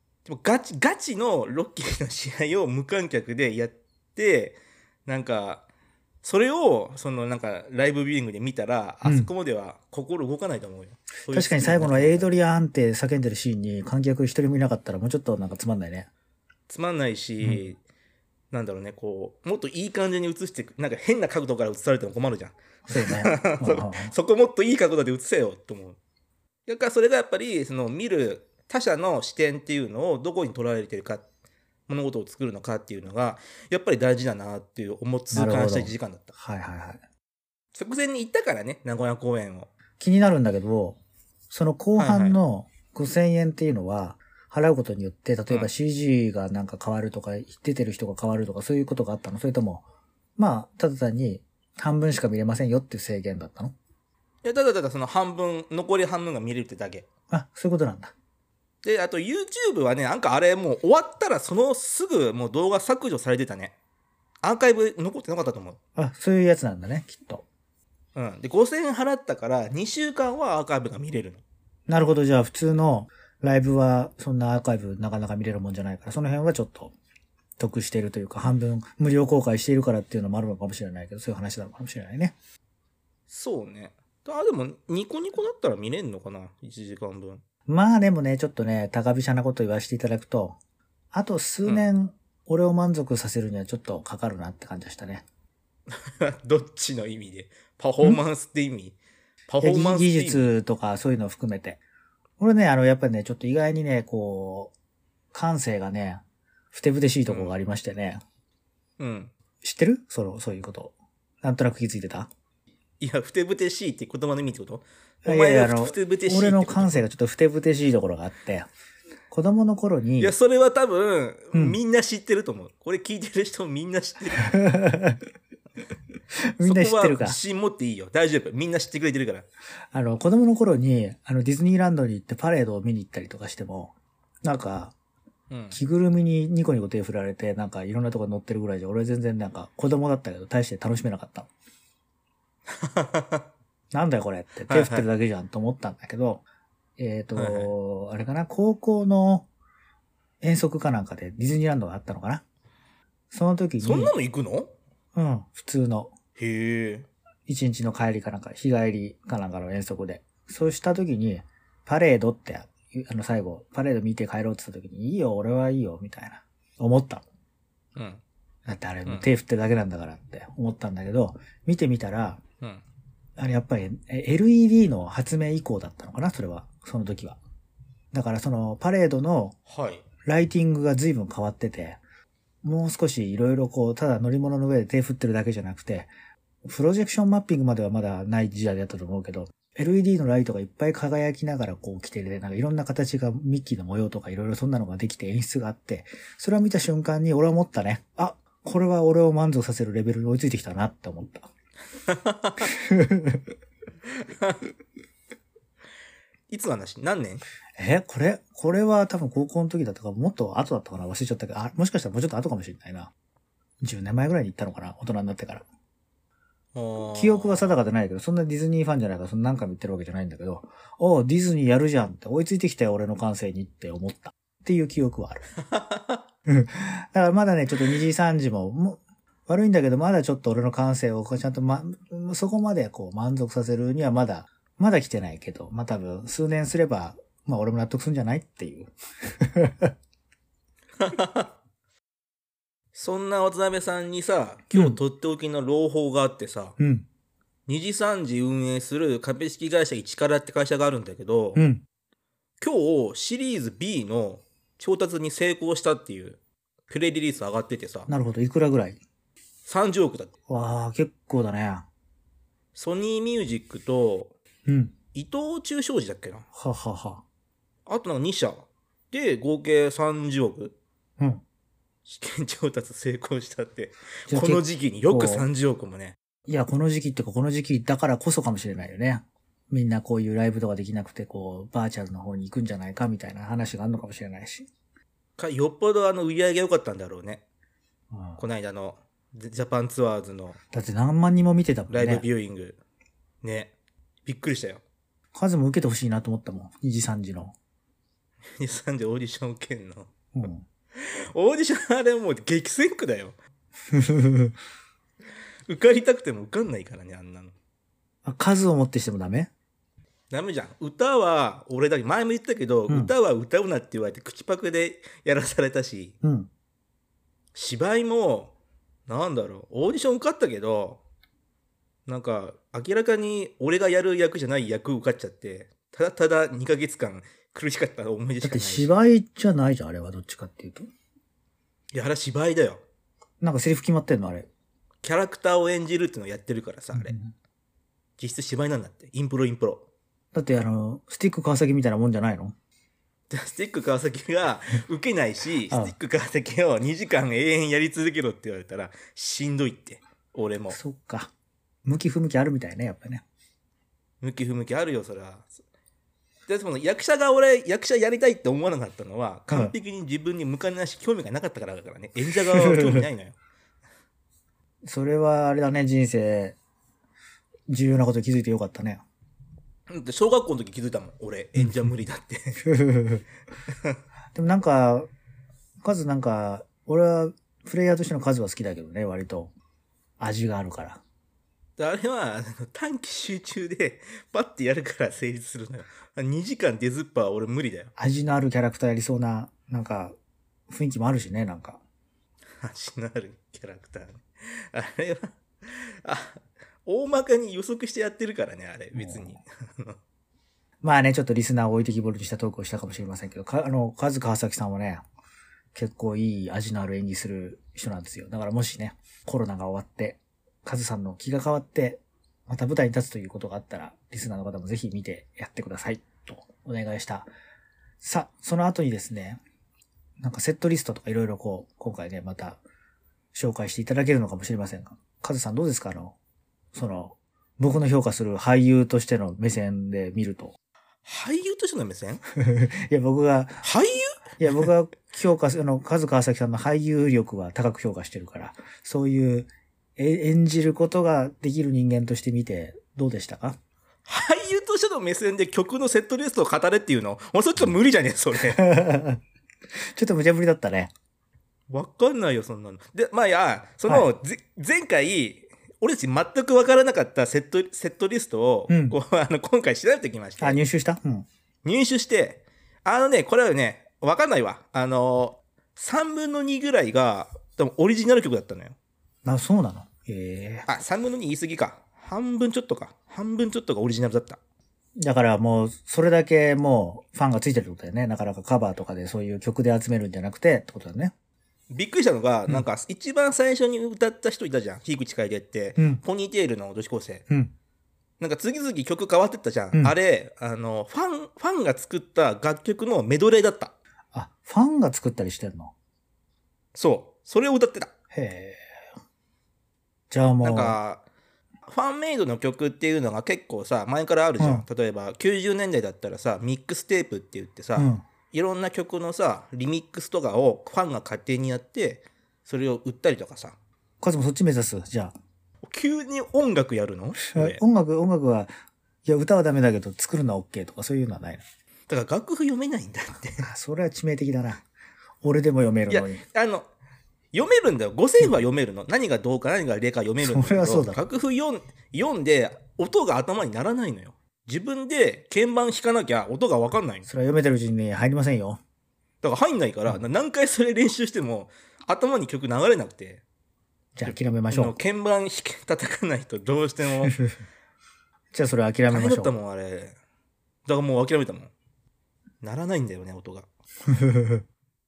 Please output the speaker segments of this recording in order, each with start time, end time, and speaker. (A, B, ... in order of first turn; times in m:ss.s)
0:00.3-0:05.6 A
0:06.2-0:12.3 A
0:09.0-0:09.3 B
0:11.3-0:16.1 B
0:16.7-0:17.8 A
0:18.5-0:26.0 A
0:22.9-0:24.1 B
0:26.7-0:31.2 A
0:31.9-0:36.3 A
0:35.3-0:37.0 B
0:37.8-0:39.7 A
0:40.0-0:41.0 B
0:41.5-0:49.8 B
0:42.0-0:42.4 A
0:50.4-0:53.7 B
0:54.4-0:57.1 A
0:57.3-0:58.1 B
0:58.8-1:03.8 A
1:04.4-1:05.8 A
1:06.0-1:07.4 B
1:08.2-1:11.4 A
1:11.9-1:16.9 B
1:17.6-1:22.4 B
1:23.3-1:27.4 A
1:27.7-1:30.6 B
1:31.1-1:35.2 B
1:35.9-1:39.0 A
1:39.5-1:40.5 A
1:39.6-1:41.8 B
1:42.4-1:44.7 B
1:45.3-1:48.2 B
1:47.3-1:47.5 A
1:49.0-1:49.3 A
1:49.6-1:52.3 B
1:53.0-1:57.0 A
1:55.2-1:58.7 B
1:59.3-2:00.3 B
2:00.2-2:04.6 A
2:01.5-2:01.8 B
2:04.4-2:05.2 B
2:06.6-2:07.4 B
2:06.6-2:09.5 A
2:09.9-2:14.9 B
2:15.5-2:15.8 A
2:15.7-2:21.5 B
2:22.7-2:23.5 A
2:23.9-2:26.4 B
2:24.7-2:25.1 A
2:27.0-2:29.5 B
2:27.4-2:27.7 A
2:30.4-2:32.4 B
2:33.3-2:34.1 B
2:33.8-2:34.7 A
2:35.2-2:36.1 B
2:36.4-2:37.1 A
2:37.5-2:47.2 B
2:48.0-2:48.2 A
2:48.7-2:52.4 B
2:53.4-2:57.4 B
2:58.1-2:59.6 B
2:59.7-3:00.0 A
3:00.2-3:02.0 B
3:02.6-3:06.1 B
3:06.6-3:21.5 B
3:22.1-3:22.7 A
3:22.7-3:23.4 B
3:24.2-3:24.6 A
3:26.5-3:27.4 A
3:27.8-3:33.1 B
3:33.8-3:35.6 B
3:36.8-3:37.8 A
3:37.2-3:45.4 B
3:45.6-3:46.2 A
3:46.5-3:59.9 B
4:01.0-4:01.5 A
4:03.0-4:06.8 A
4:04.7-4:05.0 B
4:06.8-4:07.1 B
4:07.7-4:11.6 A
4:11.6-4:11.8 B
4:12.6-4:18.1 A
4:18.1-4:19.0 B
4:19.7-4:20.3 A
4:20.5-4:21.9 B
4:22.8-4:24.4 A
4:24.7-4:24.9 B
4:25.1-4:26.5 A
4:26.5-4:27.2 B
4:27.9-4:30.8 A
4:32.1-4:36.2 A
4:34.3-4:35.5 B
4:36.5-4:44.7 B
4:45.4-4:47.4 A
4:48.1-4:48.4 B
4:48.4-4:50.6 A
4:50.7-4:52.2 B
4:51.9-4:52.8 A
4:53.4-4:53.7 A
4:54.3-4:54.8 A
4:55.3-4:57.6 B
4:58.6-5:00.1 A
5:00.3-5:00.6 B
5:01.0-5:03.4 A
5:03.9-5:04.6 B
5:05.7-5:07.5 A
5:08.2-5:09.5 B
5:10.3-5:16.2 A
5:16.2-5:16.5 B
5:17.6-5:18.5 A
5:19.1-5:21.0 A
5:22.1-5:29.0 A
5:28.4-5:30.9 B
5:31.9-5:32.8 A
5:33.4-5:34.5 B
5:35.0-5:37.2 A
5:36.9-5:37.3 B
5:38.2-5:39.9 A
5:40.3-5:42.6 B
5:43.3-5:50.8 A
5:50.7-5:51.3 B
5:51.8-5:53.2 B
5:54.2-5:55.5 A
5:56.5-6:03.4 A
5:59.5-5:59.8 B
6:02.4-6:03.0 B
6:04.8-6:06.6 B
6:07.7-6:09.0 B
6:09.9-6:12.6 A
6:12.6-6:13.2 B
6:14.3-6:15.1 B
6:15.8-6:19.5 B
6:20.2-6:21.0 B
6:21.8-6:27.9 A
6:28.0-6:30.1 B
6:30.7-6:31.8 B
6:32.6-6:40.0 A
6:39.0-6:39.4 B
6:40.8-6:45.0 B
6:45.7-6:57.3 B
6:58.0-6:59.4 B
7:00.2-7:02.6 B
7:03.3-7:06.2 B
7:06.7-7:10.6 B
7:11.0-7:12.2 A
7:12.4-7:13.6 B
7:13.6-7:14.7 A
7:14.4-7:23.6 B
7:24.1-7:28.6 A
7:28.4-7:29.2 B
7:29.9-7:30.9 B
7:31.7-7:40.6 A
7:38.7-7:39.0 B
7:40.4-7:41.3 B
7:41.6-7:48.8 A
7:49.2-7:50.7 B
7:50.7-7:54.4 A
7:55.0-8:01.1 B
8:01.7-8:07.2 A
8:05.8-8:06.0 B
8:08.2-8:13.7 A
8:14.1-8:15.7 B
8:16.8-8:17.9 A
8:18.1-8:18.6 B
8:20.1-8:20.8 B
8:20.4-8:21.0 A
8:21.7-8:33.6 A
8:24.4-8:24.6 B
8:27.8-8:28.0 B
8:34.0-8:35.1 B
8:35.6-8:37.6 A
8:37.3-8:38.5 B
8:39.0-8:41.4 B
8:41.9-8:43.5 A
8:43.4-8:44.6 B
8:45.2-8:46.2 B
8:45.9-8:46.7 A
8:47.3-8:57.1 A
8:50.2-8:51.0 B
8:57.1-8:58.6 B
8:59.2-9:03.2 A
9:04.0-9:04.8 B
9:04.0-9:07.2 A
9:08.3-9:09.3 B
9:08.9-9:10.0 A
9:10.7-9:11.5 A
9:12.4-9:13.5 A
9:13.9-9:14.4 B